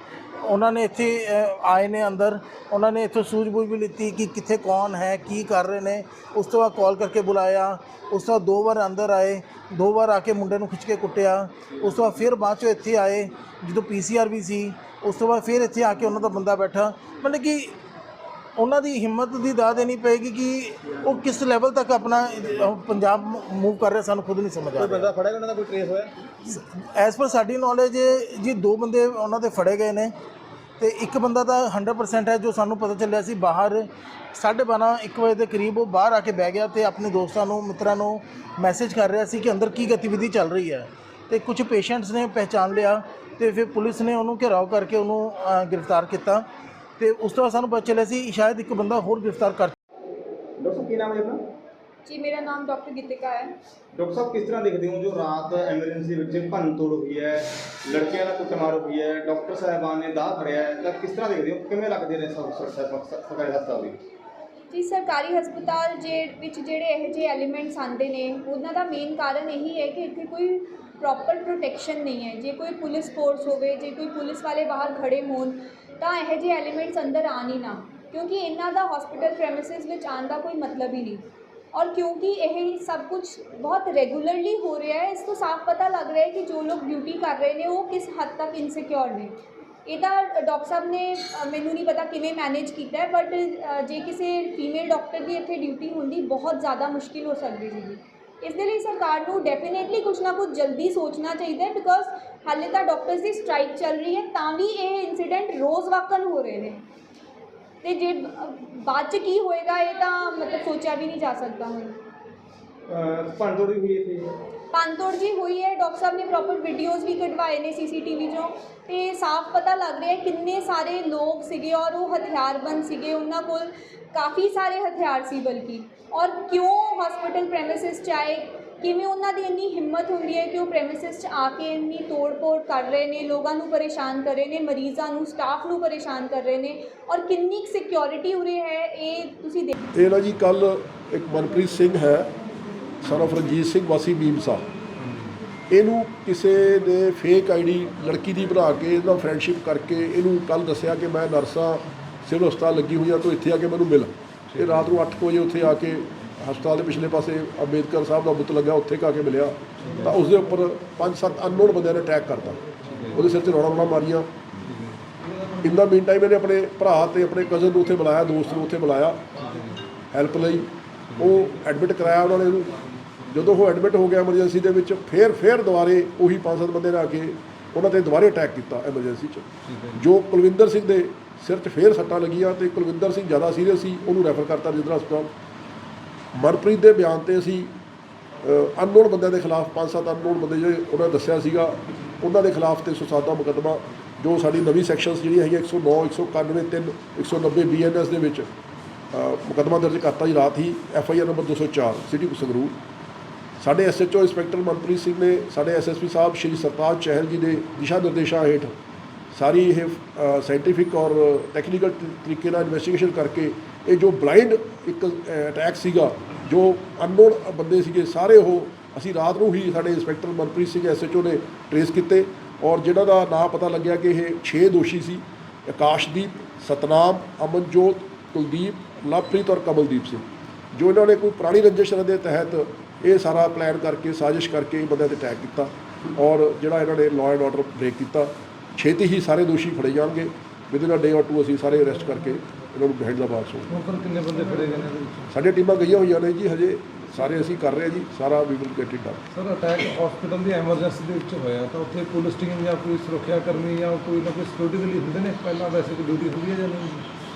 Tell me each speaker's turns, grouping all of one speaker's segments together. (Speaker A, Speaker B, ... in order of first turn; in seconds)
Speaker A: 0.4-17.8, 18.6-25.1, 26.4-30.1, 30.8-46.5, 47.0-49.8
Speaker B: 24.8-26.1, 50.6-51.4, 53.9-64.0, 112.9-114.3
Speaker C: 52.1-53.5, 64.7-106.8, 107.8-112.0, 114.7-139.7
Speaker D: 139.9-142.3, 143.0-144.7, 145.7-164.3, 165.6-169.4, 170.1-185.3, 186.3-187.7, 188.4-198.5, 199.1-202.8, 203.6-208.7, 209.3-243.7, 245.3-249.2
Speaker E: 159.8-160.2, 162.8-163.2, 179.7-179.9, 243.7-245.3, 249.3-257.1